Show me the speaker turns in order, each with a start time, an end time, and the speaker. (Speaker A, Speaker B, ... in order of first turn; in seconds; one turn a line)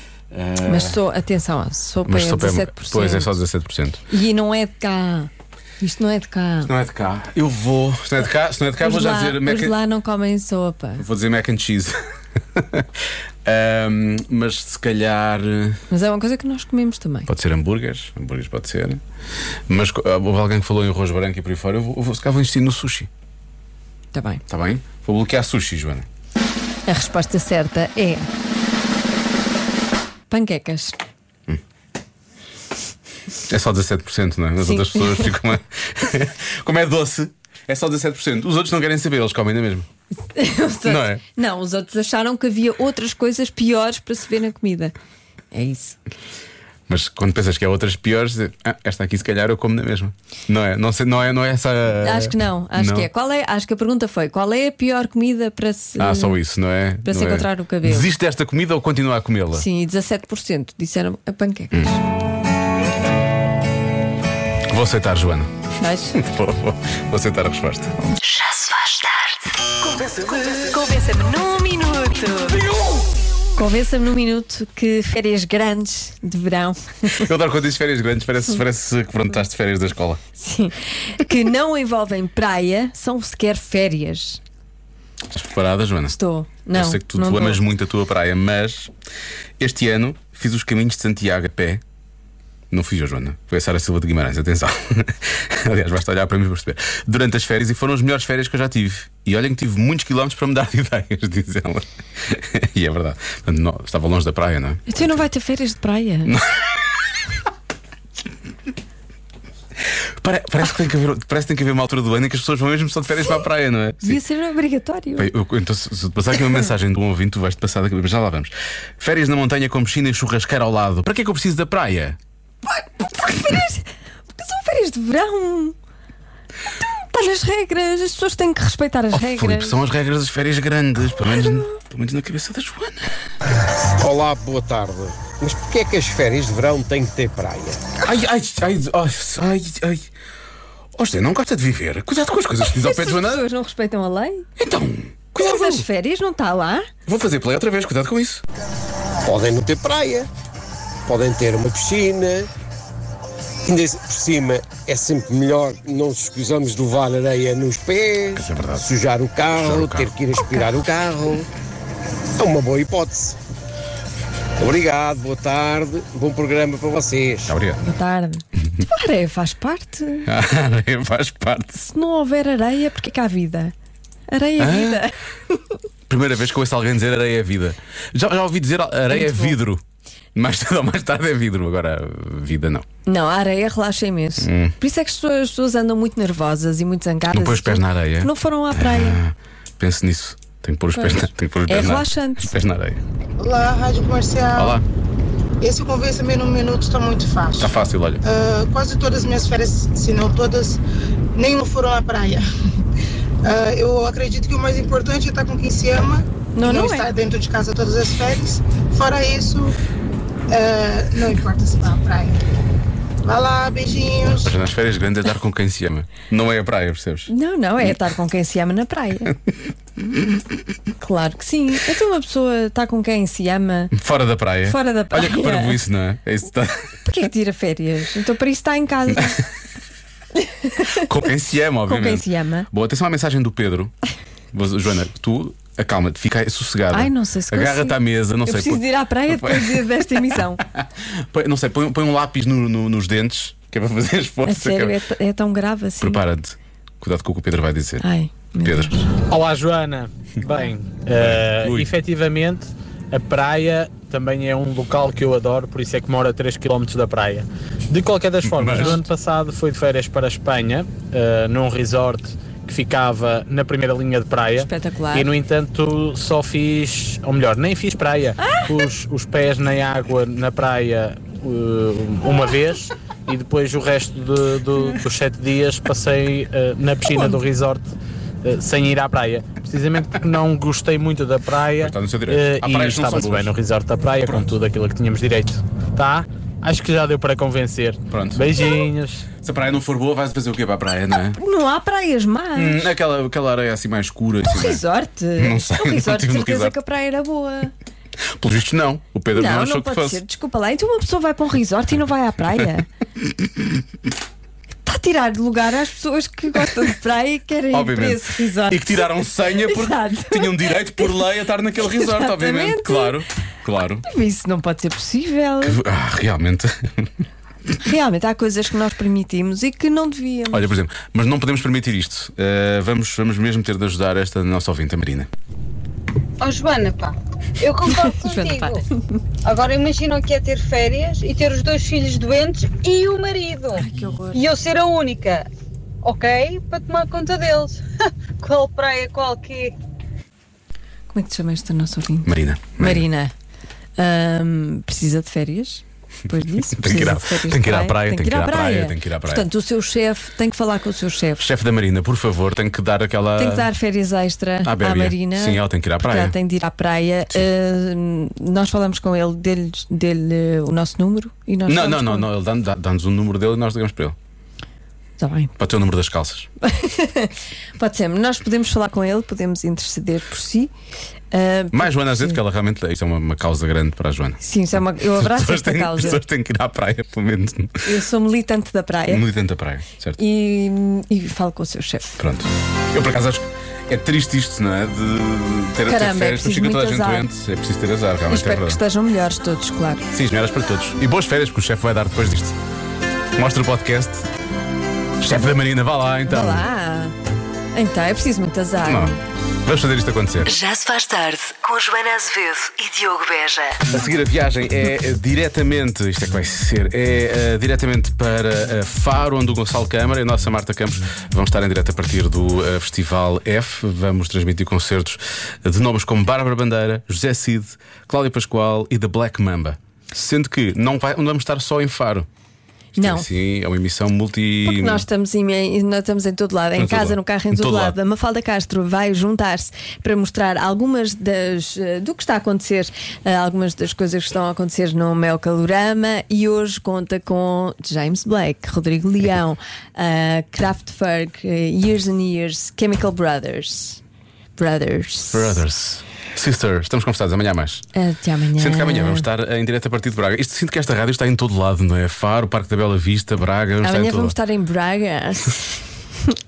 Speaker A: 0.3-1.0
Speaker B: 0.7-3.3
Speaker A: 2.1-4.0
Speaker B: 4.1-6.7
Speaker A: 6.7-9.8
Speaker B: 8.8-11.0
Speaker A: 11.0-11.9
Speaker A: 12.6-12.9
Speaker A: 13.5-15.8
Speaker B: 15.9-17.3
Speaker A: 17.3-19.0
Speaker A: 19.7-23.1
Speaker B: 24.1-24.4
Speaker A: 24.5-26.1
Speaker B: 26.9-28.3
Speaker B: 30.3-30.9
Speaker A: 33.5-39.9
Speaker B: 34.6-35.3
Speaker B: 40.3-44.9
Speaker A: 40.9-41.2
Speaker B: 45.5-46.0
Speaker A: 46.9-53.1
Speaker B: 52.0-56.4
Speaker A: 56.0-59.7
Speaker B: 57.0-58.1
Speaker B: 59.5-61.8
Speaker A: 61.7-62.0
Speaker A: 64.7-65.5
Speaker B: 65.8-66.2
Speaker A: 66.1-68.0
Speaker C: 68.4-69.1
Speaker B: 70.6-72.6
Speaker B: 73.6-76.9
Speaker A: 77.2-80.2
Speaker B: 80.4-84.4
Speaker A: 85.3-86.2
Speaker B: 86.1-87.6
Speaker A: 86.7-88.9
Speaker A: 89.6-91.8
Speaker A: 92.7-104.8
Speaker B: 104.9-106.3
Speaker A: 106.3-107.1
Speaker A: 110.2-114.2
Speaker B: 114.0-115.3
Speaker A: 115.2-122.2
Speaker B: 122.7-125.8
Speaker B: 126.8-129.8
Speaker A: 129.1-133.1
Speaker D: 134.0-137.8
Speaker A: 138.0-140.1
Speaker A: 141.0-143.4
Speaker B: 142.8-144.5
Speaker A: 144.6-145.9
Speaker B: 145.4-146.9
Speaker A: 147.1-148.4
Speaker D: 149.3-150.3
Speaker D: 151.1-152.5
Speaker D: 153.7-161.5
Speaker A: 158.3-158.9
Speaker A: 159.5-160.1
Speaker D: 162.4-163.4
Speaker D: 164.6-167.5
Speaker A: 167.5-167.8
Speaker B: 167.8-170.3
Speaker A: 170.3-171.9
Speaker B: 171.9-173.7
Speaker B: 174.3-175.2
Speaker A: 174.6-175.1
Speaker A: 176.1-179.8
Speaker B: 179.1-179.6
Speaker A: 180.3-182.8
Speaker B: 183.1-189.2
Speaker A: 184.4-184.7
Speaker A: 187.3-193.0
Speaker B: 190.9-192.5
Speaker E: 193.4-194.8
Speaker A: 194.6-194.8
Speaker E: 195.6-197.7
Speaker A: 197.6-198.2
Speaker E: 198.2-200.8
Speaker E: 201.4-202.4
Speaker E: 203.4-209.7
Speaker B: 206.6-207.1
Speaker E: 210.5-212.3
Speaker E: 213.2-214.5
Speaker A: 214.3-217.3
Speaker B: 217.3-219.3
Speaker B: 221.0-223.9
Speaker A: 223.9-226.9
Speaker B: 224.7-225.8
Speaker B: 227.1-229.4
Speaker B: 230.7-231.0
Speaker A: 230.9-233.9
Speaker B: 231.9-232.7
Speaker A: 234.5-245.0
Speaker B: 236.9-240.6
Speaker B: 244.4-246.2
Speaker A: 246.0-248.1
Speaker B: 248.0-249.1
Speaker A: 248.6-249.0
Speaker F: 249.3-277.9
Speaker A: 251.2-251.9
Speaker A: 258.4-259.0
Speaker B: 258.7-259.0
Speaker B: 264.6-265.3
Speaker B: 268.4-268.7
Speaker F: 278.4-289.3
Speaker A: 281.8-283.5
Speaker A: 288.1-288.5
Speaker A: 289.4-291.4
Speaker B: 291.4-292.9
Speaker A: 292.6-294.8
Speaker B: 294.5-297.7
Speaker A: 295.4-296.8
Speaker A: 298.4-300.2
Speaker B: 299.3-302.9
Speaker B: 304.9-309.0
Speaker A: 307.7-314.1
Speaker B: 309.5-311.2
Speaker B: 311.8-313.2
Speaker B: 314.1-315.8
Speaker A: 315.6-316.7
Speaker B: 317.8-320.7
Speaker A: 320.5-325.3
Speaker G: 326.4-328.8
Speaker B: 328.0-328.8
Speaker G: 329.4-335.5
Speaker B: 333.8-334.5
Speaker G: 336.0-337.8
Speaker G: 338.4-339.7
Speaker B: 341.1-343.3
Speaker A: 342.3-343.1
Speaker B: 344.0-351.4
Speaker A: 346.8-349.5
Speaker A: 351.4-353.7
Speaker B: 353.4-362.3
Speaker A: 354.6-356.4
Speaker A: 361.7-364.1
Speaker B: 365.2-365.5
Speaker A: 365.6-366.5
Speaker B: 366.6-370.7
Speaker B: 371.3-372.4
Speaker A: 371.7-374.4
Speaker B: 374.4-376.2
Speaker A: 375.0-377.8
Speaker B: 377.8-379.2
Speaker A: 379.1-380.2
Speaker B: 380.2-382.2
Speaker A: 382.2-388.8
Speaker B: 385.9-387.3
Speaker B: 388.3-390.0
Speaker A: 390.1-392.6
Speaker A: 393.4-394.3
Speaker A: 395.2-396.6
Speaker B: 396.3-397.1
Speaker B: 397.8-399.2
Speaker A: 398.9-400.5
Speaker C: 400.5-403.8
Speaker A: 403.9-422.3
Speaker A: 423.0-425.0
Speaker B: 423.0-423.3
Speaker B: 424.7-444.0
Speaker A: 426.8-428.0
Speaker B: 444.6-445.6
Speaker A: 445.3-447.8
Speaker B: 447.9-449.3
Speaker A: 448.6-454.4
Speaker B: 453.8-456.0